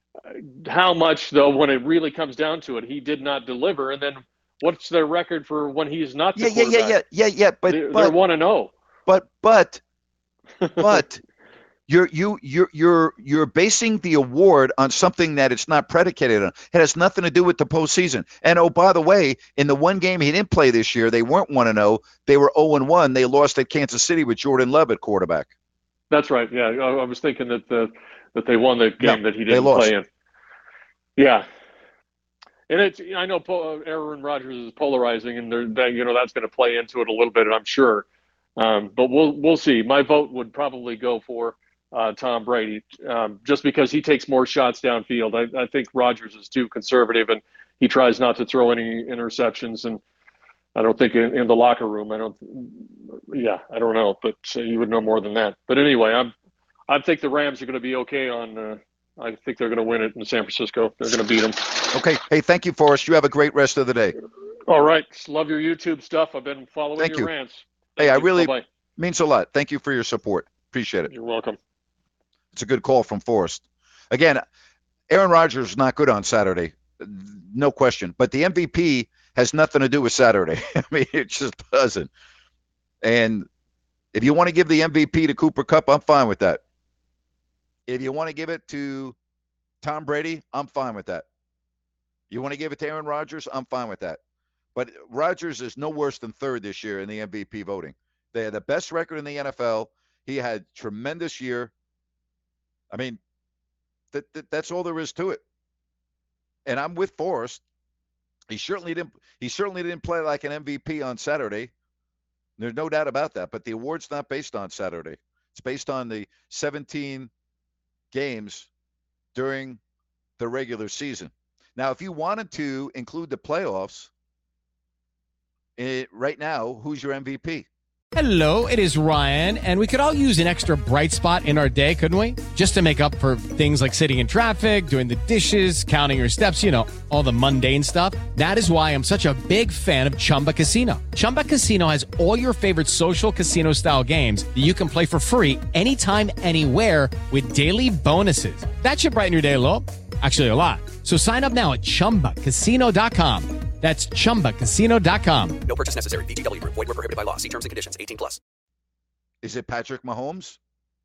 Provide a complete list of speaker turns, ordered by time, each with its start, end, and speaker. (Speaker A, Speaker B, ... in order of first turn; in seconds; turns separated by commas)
Speaker A: 0.3-7.0, Speaker B: 6.3-8.2, Speaker A: 7.7-8.7, Speaker B: 9.1-9.8, Speaker A: 10.6-11.0, Speaker B: 10.8-11.2, Speaker B: 11.9-25.5, Speaker A: 26.1-30.0, Speaker B: 29.0-29.9, Speaker A: 31.2-31.4, Speaker A: 32.7-38.0, Speaker A: 38.6-50.0, Speaker A: 50.8-56.3, Speaker A: 56.9-62.0, Speaker B: 61.9-64.1, Speaker A: 64.7-68.6, Speaker B: 67.0-67.3, Speaker B: 68.0-71.1, Speaker A: 71.1-71.6, Speaker B: 72.5-74.4, Speaker B: 75.1-82.1, Speaker B: 83.0-83.5, Speaker B: 84.1-86.6, Speaker B: 87.9-89.2, Speaker B: 89.8-91.2, Speaker B: 92.3-94.2, Speaker B: 94.7-101.7, Speaker B: 102.9-103.2, Speaker B: 104.1-105.4, Speaker B: 106.7-107.6, Speaker B: 108.5-111.7, Speaker B: 112.6-117.3, Speaker B: 118.1-118.7, Speaker B: 119.3-119.8, Speaker B: 120.4-124.1, Speaker B: 125.8-127.7, Speaker C: 128.1-155.6, Speaker D: 155.6-158.4, Speaker B: 159.4-160.6